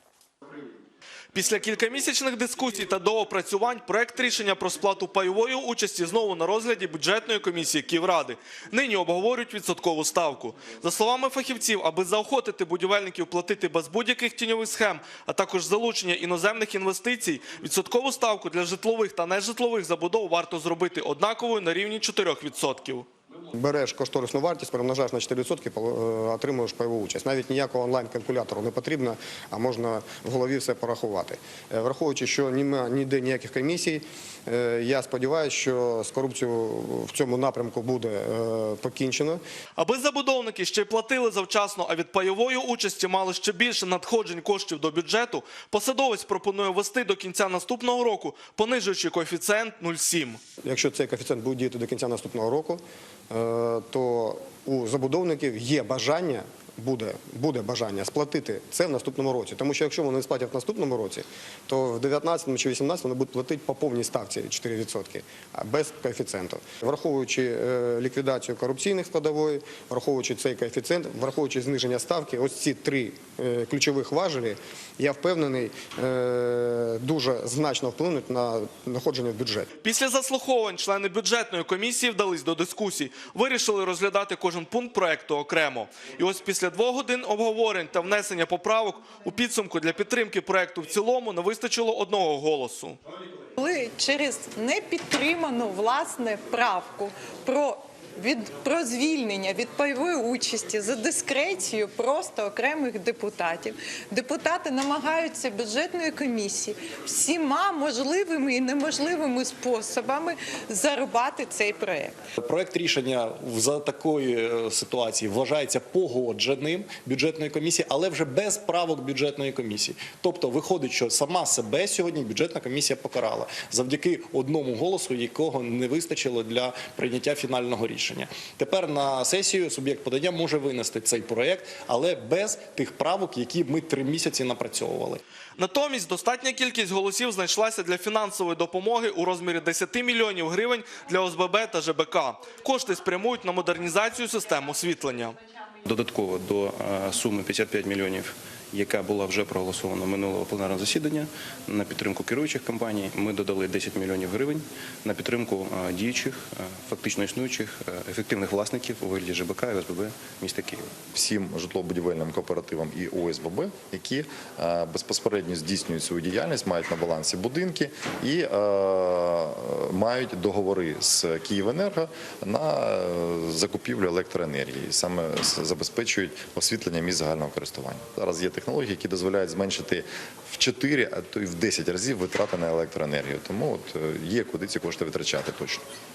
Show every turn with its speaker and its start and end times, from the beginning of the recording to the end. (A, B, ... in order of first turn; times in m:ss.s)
0:01.3-0:23.1 A
0:23.5-0:39.4 B
0:39.8-0:50.4 A
0:50.6-1:19.7 B
1:19.8-1:33.0 A
1:33.6-1:52.2 C
1:52.4-2:15.2 D
2:15.6-2:25.4 A
2:25.8-2:40.9 E
2:41.1-3:05.8 F